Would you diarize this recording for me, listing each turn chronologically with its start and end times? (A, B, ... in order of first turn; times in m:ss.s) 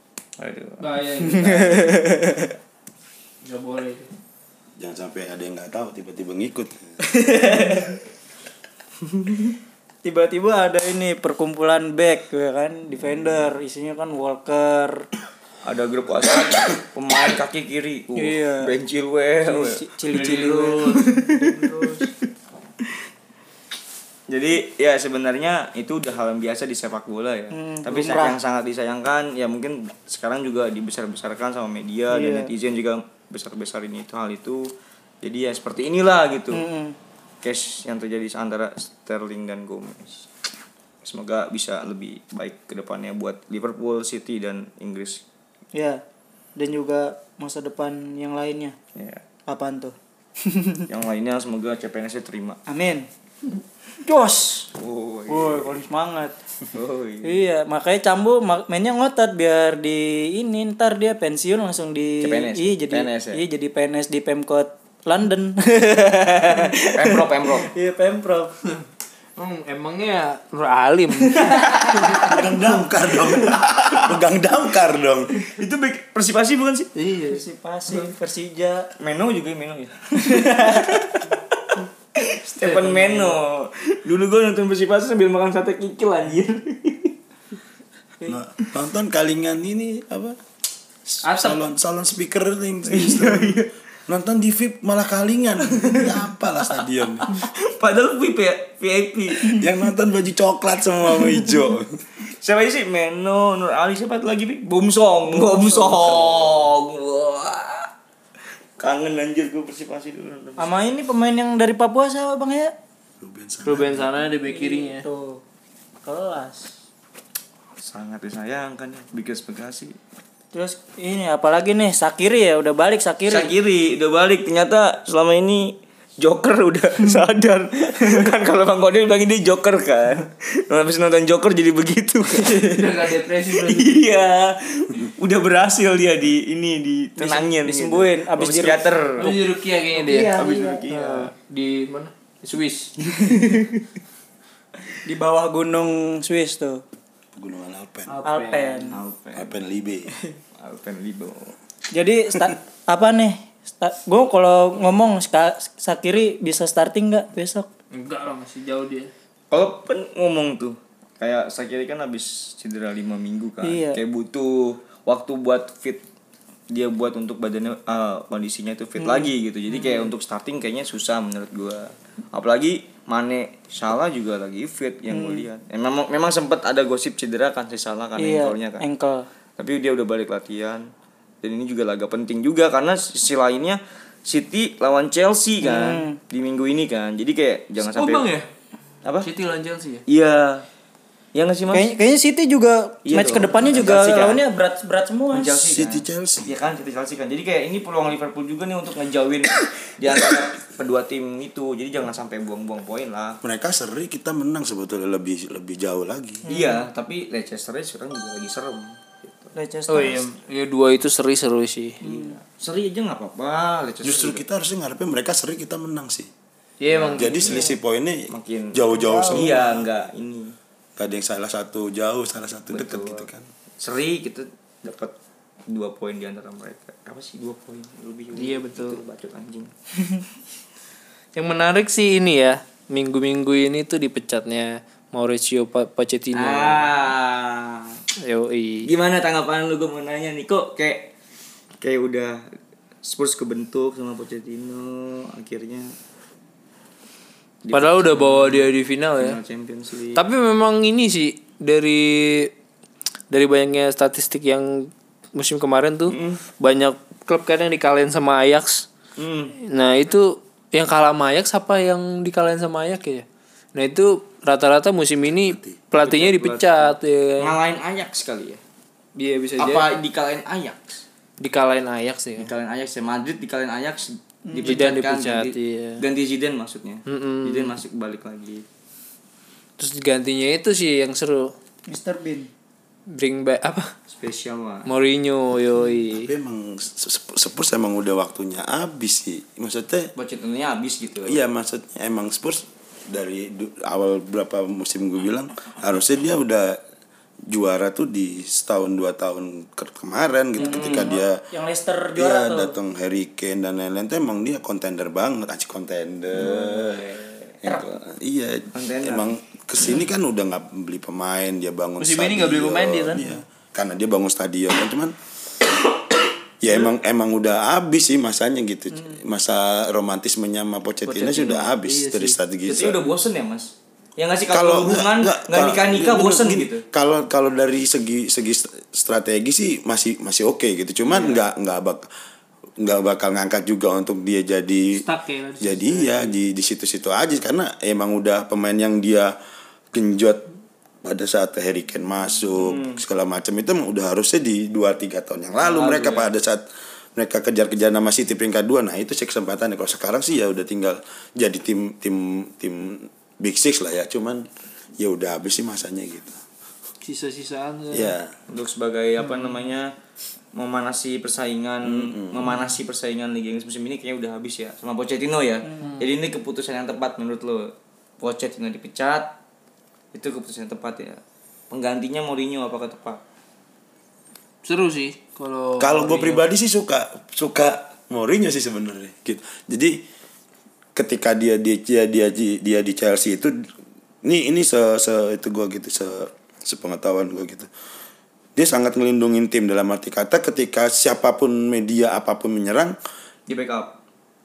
0:00.4-0:01.8 A
0:00.8-0:02.0 B
0:01.3-0:02.5 C
0:03.4-0:04.1 B
0:04.8-0:07.0 D
0:07.1-0:07.9 C
0:09.1-0:09.5 A
0:10.0-0:15.1 C
0:15.6-0:19.8 A
0:18.2-0:18.7 C
0:19.4-0:22.1 C
0:20.1-0:21.0 B
0:24.3-0:34.7 A
0:27.5-0:28.4 C
0:32.1-0:32.5 C
0:35.2-0:36.6 A
0:36.5-0:37.0 C
0:37.4-0:40.3 A
0:41.0-0:45.2 A
0:45.8-0:46.0 C
0:46.6-0:48.8 C
0:49.0-0:49.2 A
0:49.5-0:50.8 C
0:50.9-0:52.6 A
0:52.7-0:53.1 C
0:54.0-0:54.7 C
0:54.8-0:55.8 A
0:55.3-0:56.4 C
0:56.7-0:57.4 A
0:57.2-1:08.6 C
1:02.2-1:03.4 A
1:06.8-1:07.7 A
1:09.4-1:12.3 B
1:11.3-1:12.4 C
1:12.0-1:15.3 D
1:15.4-1:16.9 A
1:17.0-1:17.4 B
1:17.3-1:18.9 C
1:19.0-1:27.2 A
1:20.3-1:21.0 C
1:22.6-1:23.4 B
1:28.3-1:30.4 D
1:31.0-1:37.3 D
1:31.2-1:31.6 B
1:32.9-1:33.7 A
1:35.9-1:36.2 A
1:37.2-1:39.6 A
1:39.5-1:42.0 D
1:42.3-1:47.9 A
1:45.4-1:46.2 C
1:48.8-1:50.6 A
1:50.6-1:52.7 C
1:53.2-1:54.2 D
1:53.6-1:55.0 B
1:54.5-1:55.4 C
1:56.0-1:56.7 C
1:57.8-2:00.0 A
2:00.5-2:03.5 C
2:03.3-2:19.4 A
2:12.5-2:14.0 B
2:17.2-2:18.9 C
2:19.2-2:22.9 B
2:20.0-2:20.8 C
2:20.3-2:21.3 A
2:23.2-2:23.7 A
2:25.0-2:26.8 C
2:27.3-2:28.2 D
2:28.1-2:29.0 B
2:28.2-2:29.0 C
2:28.8-2:29.5 A
2:29.4-2:30.1 D
2:30.6-2:31.6 A
2:31.9-2:37.7 C
2:37.9-2:39.1 B
2:39.5-2:46.0 A
2:43.6-2:44.0 C
2:46.7-2:58.8 A
2:49.0-2:50.1 C
2:55.1-2:55.5 C
2:58.2-2:59.3 C
2:59.6-3:00.9 A
3:01.4-3:08.4 A
3:05.6-3:06.2 C
3:07.8-3:08.5 B
3:09.2-3:10.0 B
3:10.1-3:10.7 A
3:11.3-3:11.9 A
3:11.7-3:15.6 C
3:13.0-3:14.4 A
3:15.3-3:23.4 A
3:15.7-3:16.5 D
3:23.4-3:26.4 D
3:26.5-3:26.9 C
3:26.5-3:29.5 A
3:29.6-3:30.3 C
3:29.9-3:32.0 B
3:32.0-3:32.4 C
3:32.0-3:34.4 A
3:34.0-3:36.3 D
3:36.8-3:37.7 B
3:36.9-3:37.7 A
3:37.1-3:39.8 D
3:38.3-3:40.5 A
3:39.0-3:39.7 C
3:41.0-3:43.5 D
3:42.7-3:43.3 A
3:43.8-3:45.1 A
3:45.7-3:49.7 A
3:48.4-3:49.0 B
3:51.4-3:56.9 B
3:56.3-3:58.0 A
3:58.2-3:58.9 B
3:58.8-4:01.1 A
4:01.8-4:02.4 A
4:03.0-4:05.9 A
4:07.6-4:10.2 A
4:07.7-4:09.4 B
4:10.2-4:12.5 B
4:13.3-4:18.9 B
4:16.1-4:16.4 A
4:19.2-4:19.6 A
4:19.6-4:27.6 B
4:25.4-4:25.8 D
4:26.0-4:28.6 A
4:29.2-4:29.9 B
4:29.6-4:31.0 A
4:31.4-4:32.5 B
4:32.4-4:38.6 A
4:34.4-4:34.8 C
4:34.6-4:36.0 B
4:37.1-4:37.7 B
4:39.8-4:41.5 B
4:41.9-4:42.5 C
4:43.1-4:43.9 B
4:44.1-4:44.9 A
4:44.9-4:46.3 B
4:46.1-4:50.1 D
4:50.2-4:51.4 A
4:51.3-4:56.8 D
4:57.5-5:01.4 D
5:00.6-5:01.2 A
5:00.6-5:02.8 C
5:02.2-5:15.2 D
5:06.3-5:07.4 A
5:08.7-5:09.3 A
5:12.0-5:13.4 B
5:16.6-5:23.0 D
5:21.1-5:22.4 B
5:22.7-5:26.8 A
5:24.5-5:32.1 D
5:31.1-5:31.4 A
5:32.8-5:35.0 D
5:35.0-5:36.4 B
5:35.6-5:39.3 D
5:39.9-5:40.4 D
5:41.0-5:46.6 D
5:42.6-5:43.0 A
5:45.6-5:46.3 A
5:47.2-5:54.5 D
5:55.0-5:56.4 D
5:57.0-5:58.2 B
5:57.9-5:58.3 D
5:58.5-5:59.9 A
6:00.6-6:09.3 A
6:01.8-6:02.5 D
6:10.1-6:13.2 A
6:14.6-6:16.4 B
6:15.8-6:20.0 D
6:21.0-6:23.7 D
6:24.2-6:27.7 D
6:28.6-6:33.0 D
6:33.5-6:33.9 A